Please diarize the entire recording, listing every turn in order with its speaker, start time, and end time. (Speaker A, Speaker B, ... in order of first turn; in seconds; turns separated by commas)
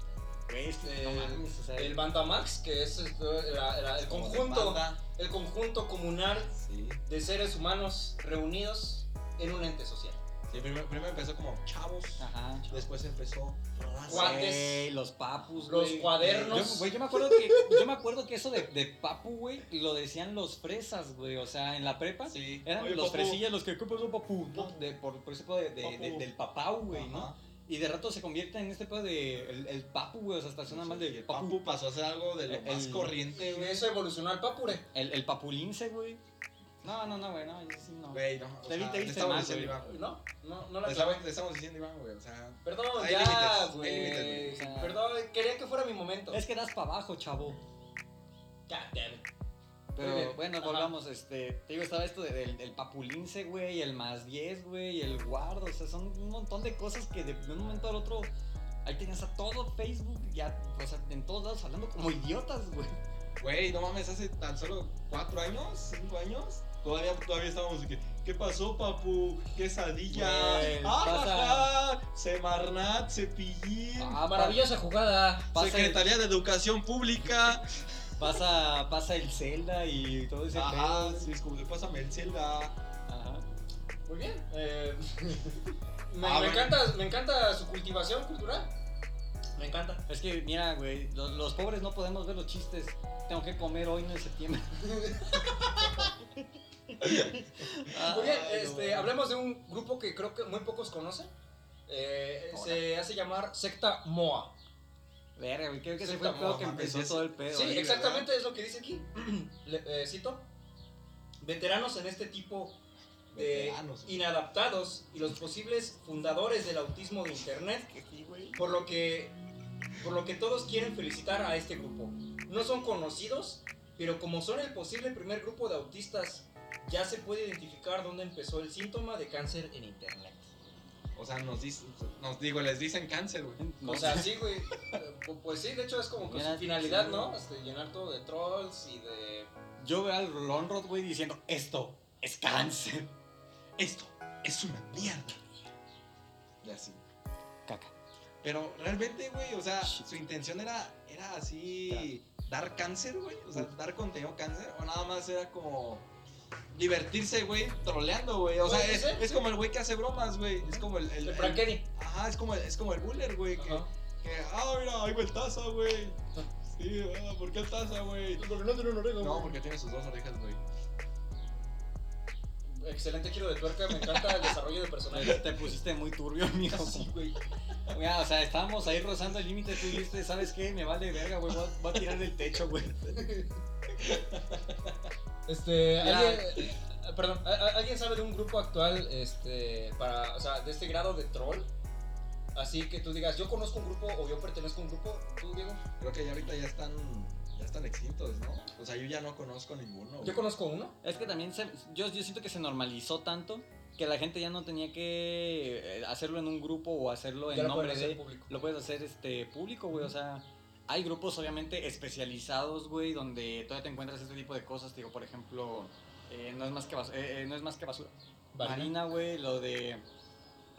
Speaker A: 0.5-2.0, Speaker B: 0.8-10.2, Speaker C: 4.0-5.0, Speaker C: 6.5-7.0, Speaker C: 10.5-14.5, Speaker A: 12.2-12.8, Speaker B: 14.1-14.9, Speaker A: 14.1-31.6, Speaker B: 15.6-17.8, Speaker C: 16.2-16.8, Speaker C: 22.3-23.4, Speaker C: 24.5-24.8, Speaker C: 25.8-26.3, Speaker C: 26.9-27.4, Speaker C: 30.7-33.8, Speaker A: 32.5-33.1, Speaker B: 33.4-34.9, Speaker A: 34.9-36.2, Speaker A: 36.8-39.8, Speaker C: 38.1-40.0, Speaker B: 39.8-41.2, Speaker C: 40.8-44.6, Speaker B: 42.6-46.4, Speaker A: 44.2-45.0, Speaker A: 46.3-47.6, Speaker B: 48.7-49.3, Speaker A: 50.0-58.3, Speaker B: 50.0-50.9, Speaker A: 58.8-63.0, Speaker C: 63.4-74.2, Speaker B: 70.1-70.9, Speaker A: 70.2-71.7, Speaker A: 74.0-74.7, Speaker B: 74.2-75.5, Speaker A: 75.5-76.1, Speaker C: 75.5-77.8, Speaker A: 78.2-81.3, Speaker C: 80.5-82.7, Speaker A: 83.1-83.4, Speaker B: 84.1-88.7, Speaker C: 86.2-86.8, Speaker B: 89.6-90.0, Speaker A: 90.1-96.2, Speaker B: 94.8-96.0, Speaker A: 96.9-99.1, Speaker B: 97.9-101.3, Speaker B: 101.9-104.5, Speaker A: 102.5-102.8, Speaker A: 105.4-108.2, Speaker B: 106.0-106.6, Speaker C: 106.3-107.3, Speaker B: 107.5-110.5, Speaker B: 111.4-112.8, Speaker B: 113.3-117.9, Speaker C: 113.3-114.2, Speaker A: 117.9-118.6, Speaker B: 118.5-119.4, Speaker B: 120.0-130.5, Speaker C: 131.1-134.2, Speaker A: 133.6-134.3, Speaker B: 133.8-139.5, Speaker A: 136.2-137.4, Speaker A: 139.8-143.1, Speaker C: 143.8-145.4, Speaker C: 146.6-147.0, Speaker A: 147.7-147.9, Speaker C: 148.4-156.1, Speaker C: 156.7-168.5, Speaker B: 158.6-159.4, Speaker B: 160.6-161.8, Speaker B: 163.6-163.9, Speaker B: 168.4-169.6, Speaker C: 169.2-170.6, Speaker B: 172.7-175.4, Speaker A: 175.1-177.1, Speaker B: 176.7-177.4, Speaker A: 177.9-183.2, Speaker B: 183.1-183.5, Speaker C: 183.9-185.1, Speaker B: 185.5-191.7, Speaker A: 186.0-186.7, Speaker B: 192.5-195.8, Speaker C: 196.0-200.4, Speaker B: 200.2-200.9, Speaker A: 201.0-220.0, Speaker B: 207.5-208.5, Speaker B: 218.5-218.9